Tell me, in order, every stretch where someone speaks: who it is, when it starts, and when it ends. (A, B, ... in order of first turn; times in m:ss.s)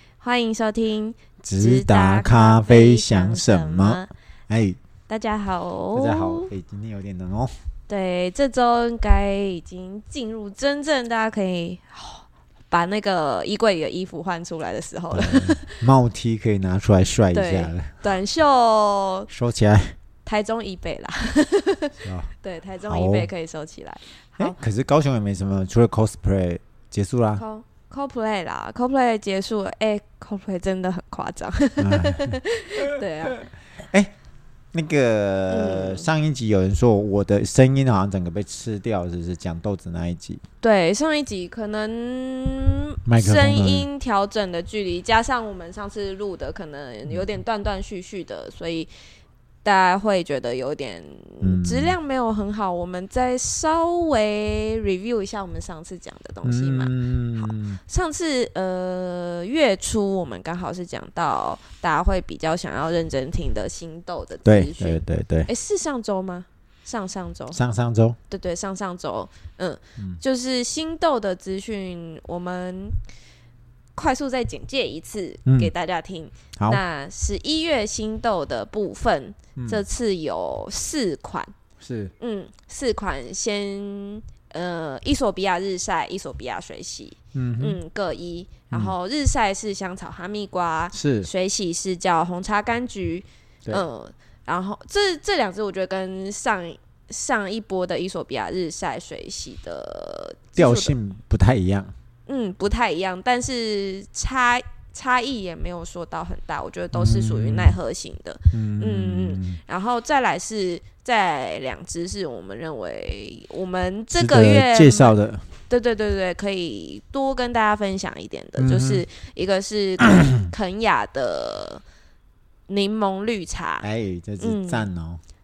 0:00.2-0:04.1 A
0:01.4-0:04.8 B
0:05.1-0:06.5 A
0:05.9-0:07.5 B
0:07.9-0:15.7 A
0:15.1-0:18.0 B
0:17.3-0:19.3 A
0:19.3-0:20.0 B
0:20.3-0:24.6 A
0:22.0-0:22.3 B
0:22.8-0:23.3 B
0:24.4-0:27.4 B
0:27.4-0:33.4 A
0:31.8-0:32.4 B
0:34.7-0:40.4 B
0:35.5-0:36.1 A
0:40.6-0:48.9 A
0:43.1-0:43.9 B
0:49.6-1:07.6 A
0:51.4-0:52.0 B
0:56.4-0:57.8 B
1:04.4-1:05.5 B
1:07.5-1:08.2 B
1:08.3-1:13.0 A
1:14.0-1:21.5 A
1:15.4-1:15.7 B
1:19.6-1:19.8 B
1:21.8-1:22.1 B
1:22.2-1:41.0 A
1:27.3-1:27.8 B
1:30.9-1:31.3 B
1:40.6-1:41.9 B
1:42.3-1:55.2 A
1:46.9-1:47.8 B
1:48.5-1:49.6 B
1:54.1-1:55.5 B
1:55.7-2:01.8 A
1:58.6-1:59.0 B
2:02.7-2:03.9 A
2:03.8-2:05.2 B
2:04.4-2:04.9 A